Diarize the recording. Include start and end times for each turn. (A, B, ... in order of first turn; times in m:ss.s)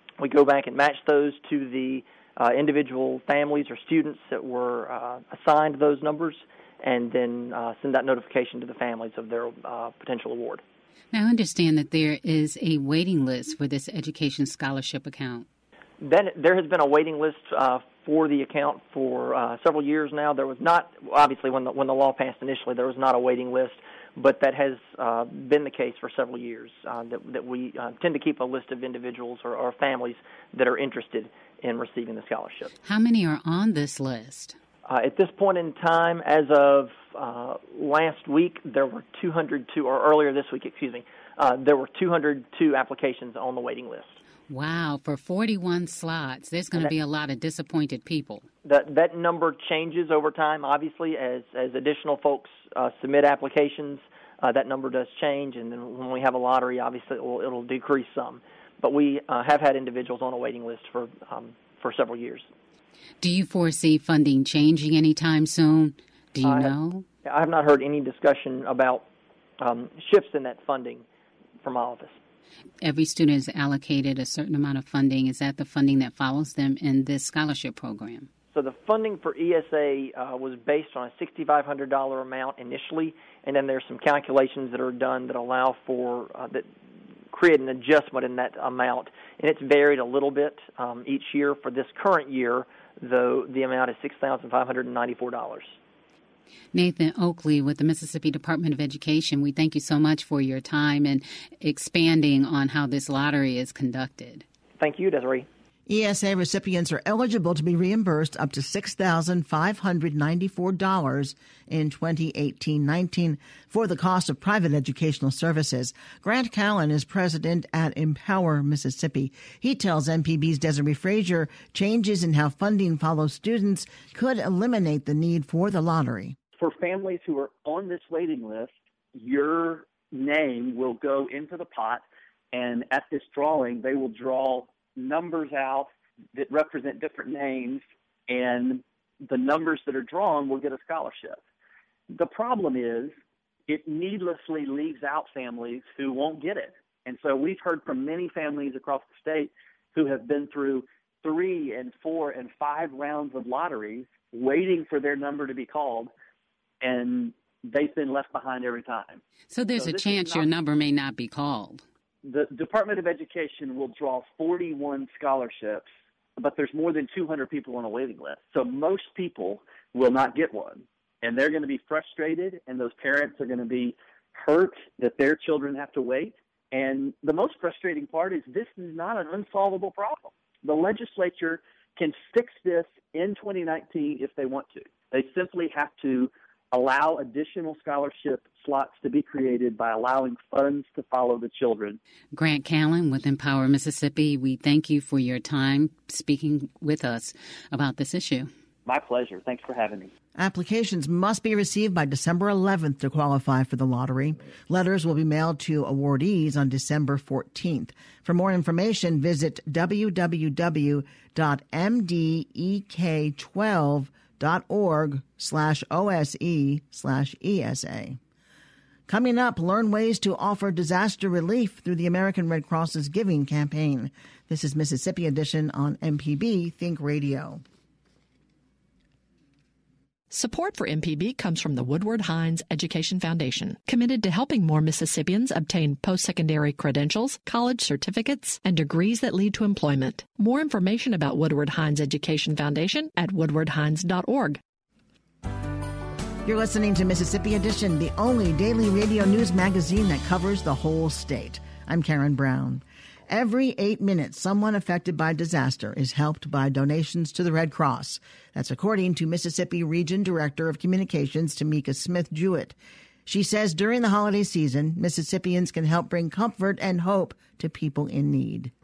0:00.2-0:10.6 A
0:11.1-0:15.5 B
0:16.0-0:32.7 A
0:32.8-0:34.6 B
0:34.9-0:44.2 A
0:44.5-0:48.5 B
0:48.6-1:02.5 A
1:03.2-1:07.0 B
1:06.4-1:09.1 A
1:09.6-1:11.0 A
1:11.6-1:12.2 A
1:12.8-1:18.3 B
1:18.5-1:26.7 A
1:27.3-1:35.8 A
1:36.7-1:44.4 B
1:44.8-1:45.5 A
1:45.9-2:06.4 C
2:06.6-2:21.4 D
2:22.1-2:23.1 D
2:23.7-2:36.1 D
2:36.8-2:39.2 D
2:39.5-2:41.8 B
2:39.7-2:40.5 D
2:42.2-3:12.0 D
3:12.3-3:18.5 B
3:18.9-3:20.1 D
3:20.4-3:38.2 C
3:39.1-3:47.6 C
3:50.3-4:04.6 E
4:06.4-4:28.7 C